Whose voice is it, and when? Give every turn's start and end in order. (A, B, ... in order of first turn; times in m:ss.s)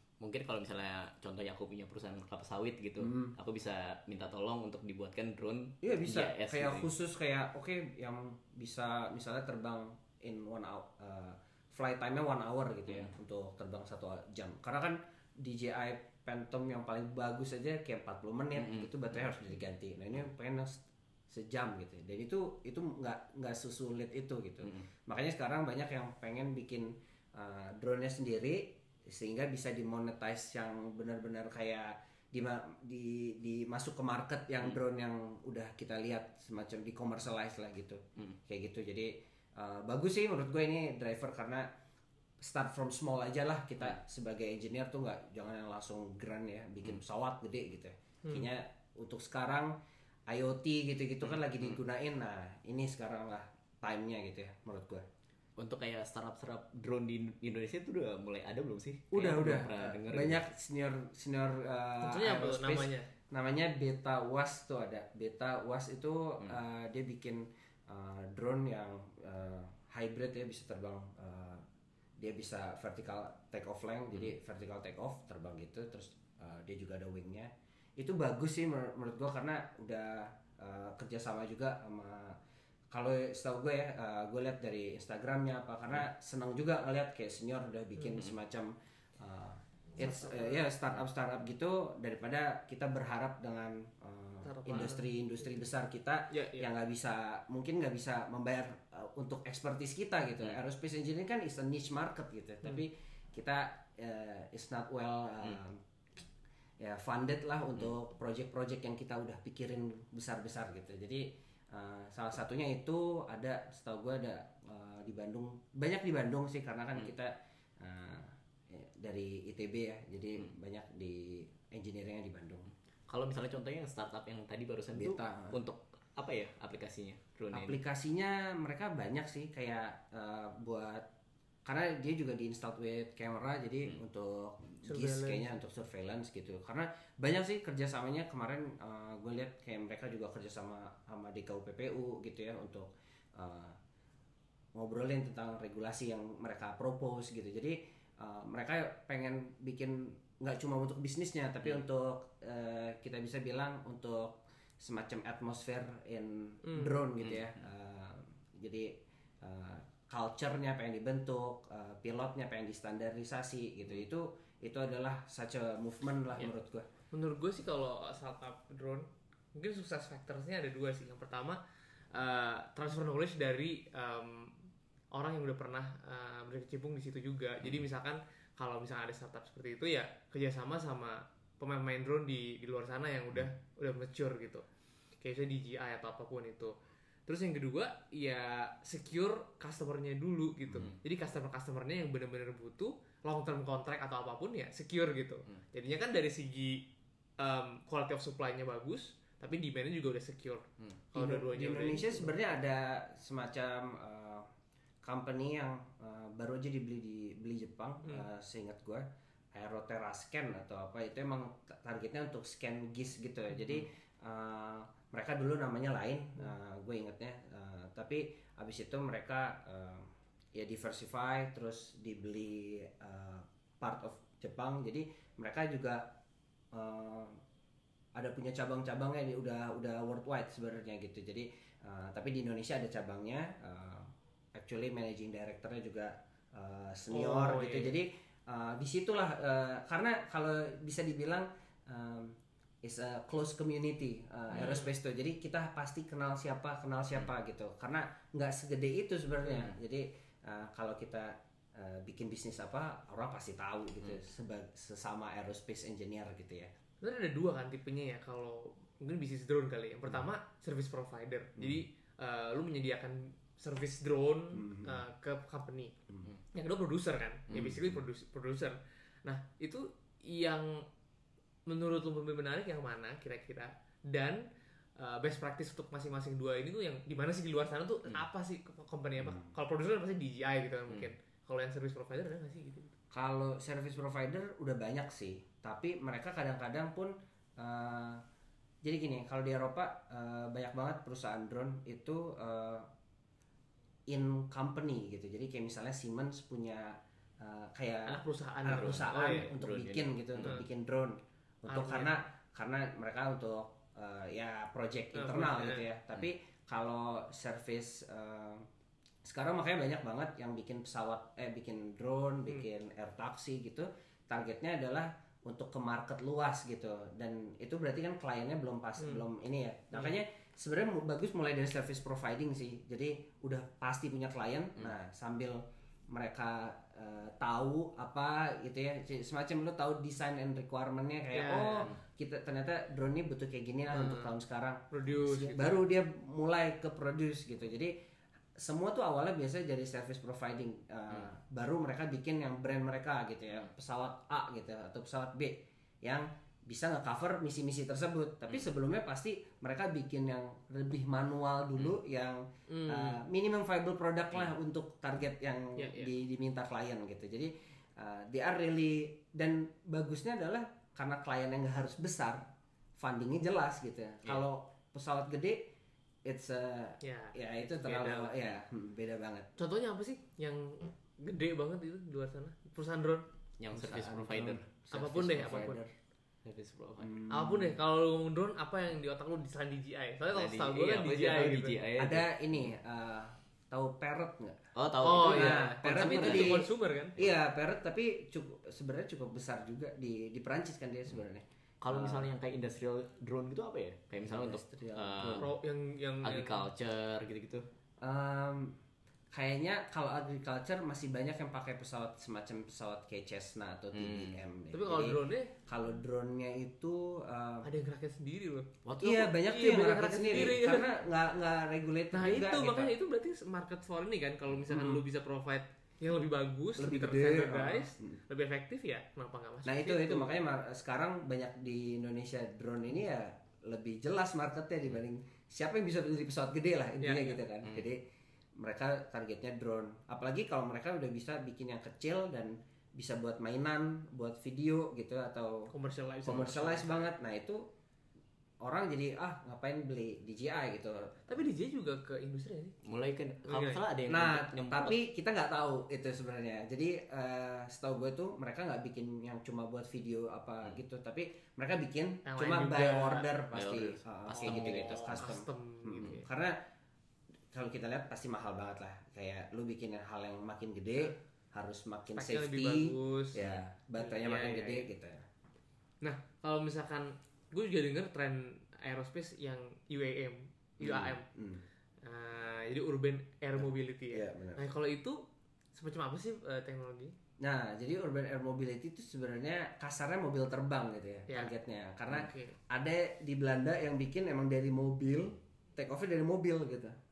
0:00.2-0:06.9 A
0:03.0-0:03.4 B
0:05.8-0:41.7 B
0:18.6-0:19.3 A
0:42.4-0:49.7 B
0:48.2-0:48.5 C
0:50.3-0:55.1 B
0:51.3-0:51.7 A
0:55.6-1:00.5 A
0:59.1-1:11.6 B
1:02.0-1:03.1 C
1:12.2-1:22.4 B
1:22.9-1:46.2 B
1:30.0-1:30.6 C
1:34.4-1:35.0 C
1:36.3-1:36.7 C
1:46.8-2:02.7 B
2:03.1-2:07.8 A
2:04.9-2:05.6 B
2:07.5-2:11.1 B
2:11.7-2:23.8 B
2:14.8-2:15.5 C
2:24.8-2:46.9 B
2:36.6-2:37.0 C
2:37.2-2:37.5 A
2:47.1-2:54.6 C
2:55.1-3:04.7 C
3:05.2-3:06.8 C
3:07.3-3:16.9 C
3:17.4-3:22.3 C
3:21.2-3:24.5 B
3:25.0-3:46.1 B
3:46.7-3:47.4 B
3:48.2-4:16.7 B
3:57.1-3:57.9 C
4:04.5-4:04.9 C
4:17.0-4:25.9 C
4:21.6-4:21.8 B
4:24.5-4:25.0 B
4:26.5-4:30.8 C
4:27.5-4:28.0 B
4:31.7-4:34.4 C
4:35.0-4:43.0 C
4:39.2-4:39.5 B
4:43.1-4:48.2 B
4:48.8-4:52.9 B
4:54.1-5:08.7 B
4:58.1-4:59.5 C
4:58.7-5:00.6 A
5:01.7-5:02.2 C
5:05.1-5:05.9 C
5:09.2-5:37.9 B
5:31.3-5:31.9 C
5:33.9-5:34.3 C
5:34.9-5:35.8 C
5:38.6-6:02.4 B
5:52.7-5:53.2 C
5:55.8-5:56.1 C
6:03.0-6:05.7 B
6:06.2-6:09.5 B
6:07.0-6:08.4 C
6:09.6-6:13.3 C
6:13.6-6:14.7 A
6:13.7-6:15.9 B
6:14.9-6:15.8 C
6:16.4-6:17.1 A
6:17.0-6:17.8 B
6:17.3-6:21.8 C
6:20.3-6:22.3 A
6:22.0-6:32.3 B
6:24.8-6:26.6 A
6:25.0-6:27.2 C
6:31.8-6:35.5 A
6:34.2-6:35.5 B
6:35.3-6:36.7 C
6:36.2-6:37.7 A
6:38.0-6:38.8 B
6:39.3-6:47.7 B
6:43.9-6:44.4 A
6:44.7-6:45.5 C
6:47.6-6:48.7 C
6:48.8-6:49.3 A
6:49.0-6:52.9 B
6:49.4-6:51.0 C
6:52.1-7:00.3 C
6:54.7-6:55.0 B
6:56.8-6:58.2 B
6:59.6-7:08.0 B
7:07.0-7:07.4 C
7:08.6-7:15.7 B
7:15.7-7:17.1 C
7:16.2-7:17.6 B
7:18.6-7:21.4 B
7:21.3-7:22.9 C
7:22.8-7:25.0 A
7:23.4-7:23.8 C
7:24.1-7:36.6 B
7:32.2-7:33.3 C
7:33.5-7:35.3 A
7:34.3-7:36.3 C
7:37.5-7:45.2 B
7:42.1-7:43.4 C
7:44.0-7:44.9 C
7:46.0-7:51.3 C
7:50.8-7:51.6 B
7:52.0-7:55.2 C
7:53.6-7:54.6 B
7:55.8-7:57.2 C
7:57.4-8:07.0 B
8:01.3-8:01.5 C
8:02.1-8:02.6 C